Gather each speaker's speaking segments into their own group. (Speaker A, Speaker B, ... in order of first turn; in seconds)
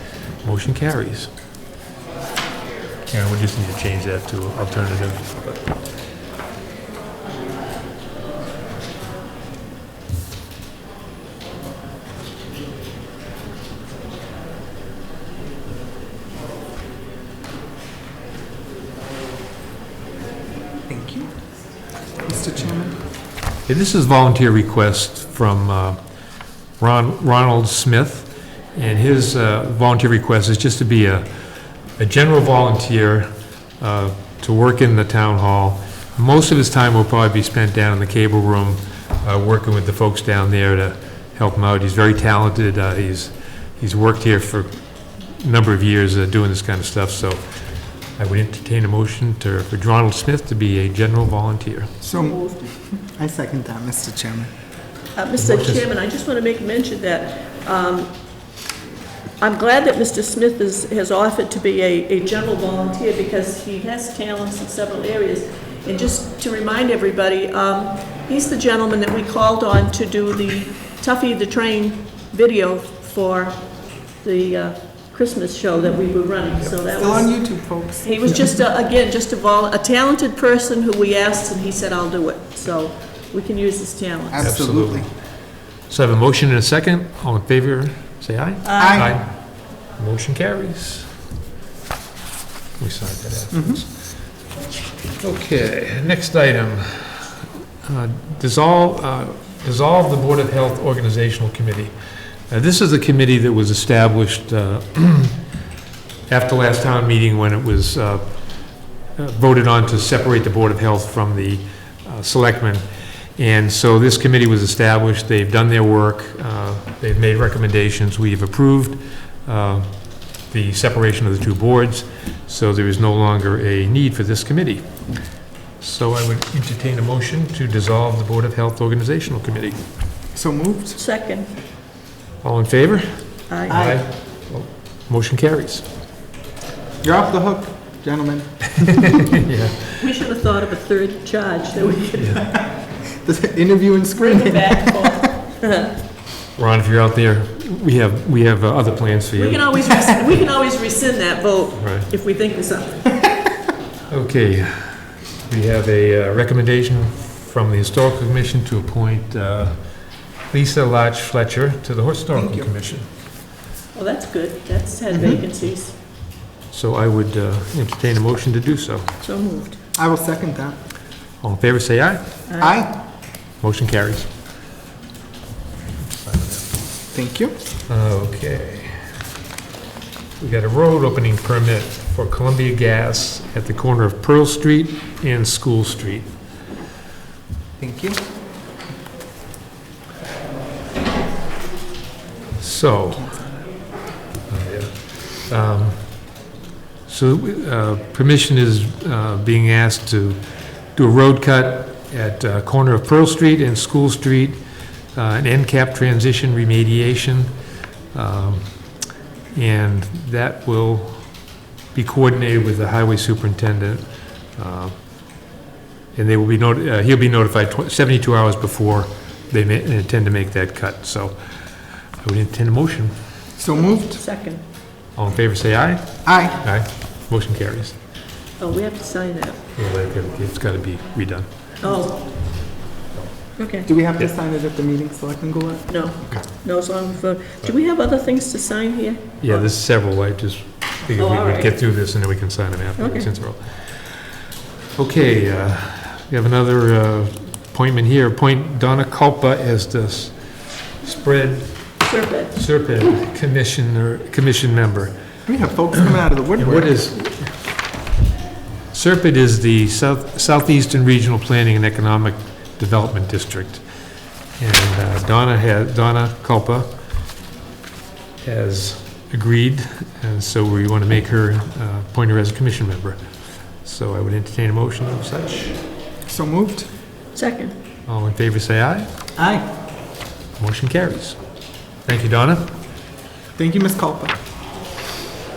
Speaker A: 0.4-1.3, 3.1-5.8, 23.7-26.0, 26.8-31.2, 32.0-33.3, 33.8-44.7, 45.4-47.4, 48.2-51.9, 55.4-55.9, 84.4-85.1, 85.9-89.3, 90.0-91.1, 92.8-93.9, 95.2-101.9, 102.5-105.4, 106.3-108.6, 109.2-112.8, 113.3-125.1, 125.8-129.8, 132.4-135.8, 139.4-139.9, 146.6-149.8, 151.8-152.1, 154.1-159.7, 160.5-163.1, 166.7-169.1, 171.4-172.2, 173.6-174.3, 176.0-176.7, 177.9-179.0, 180.4-186.3, 192.6-193.4, 194.5-196.2, 197.1-200.4, 200.9-204.6, 205.1-207.5, 208.1-208.7, 209.5-211.4, 211.9-214.0, 214.6-214.9, 216.1-221.3, 222.2-223.1, 225.1-228.0, 229.8-231.5, 236.3-236.6, 239.4-244.2, 244.9-250.3, 251.0-255.1, 256.6-257.5, 258.9-263.8, 264.6-266.9, 268.4-273.2, 273.8-275.8, 278.1-279.1, 280.6-281.4, 282.0-282.7
Speaker B: 20.9-21.3, 22.2-23.0, 52.0-54.5, 76.9-78.6, 84.3-85.1, 88.8-89.1, 93.5-93.8, 130.3-131.0, 133.7-134.0, 137.0-139.2, 143.2-145.3, 162.3-162.7, 165.1-165.4, 169.9-170.8, 172.6-173.0, 177.1-177.6, 187.8-188.2, 223.6-224.2, 226.2-226.6, 233.8-235.9, 255.5-257.0, 276.2-276.9, 279.4-279.6, 283.6-284.4
Speaker C: 52.1-52.7, 55.1-58.1, 59.4-73.7, 74.2-77.3, 78.0-84.5, 88.6-89.1, 131.0-131.5, 133.5-133.8, 139.9-142.6, 144.2-145.9, 149.3-153.3, 163.9-165.9, 169.2-169.8, 172.5-172.8, 224.1-224.6, 228.6-229.6, 231.8-232.3, 233.6-233.9, 235.9-239.7, 241.1-241.7, 243.0-243.3, 252.1-252.6, 277.3-277.7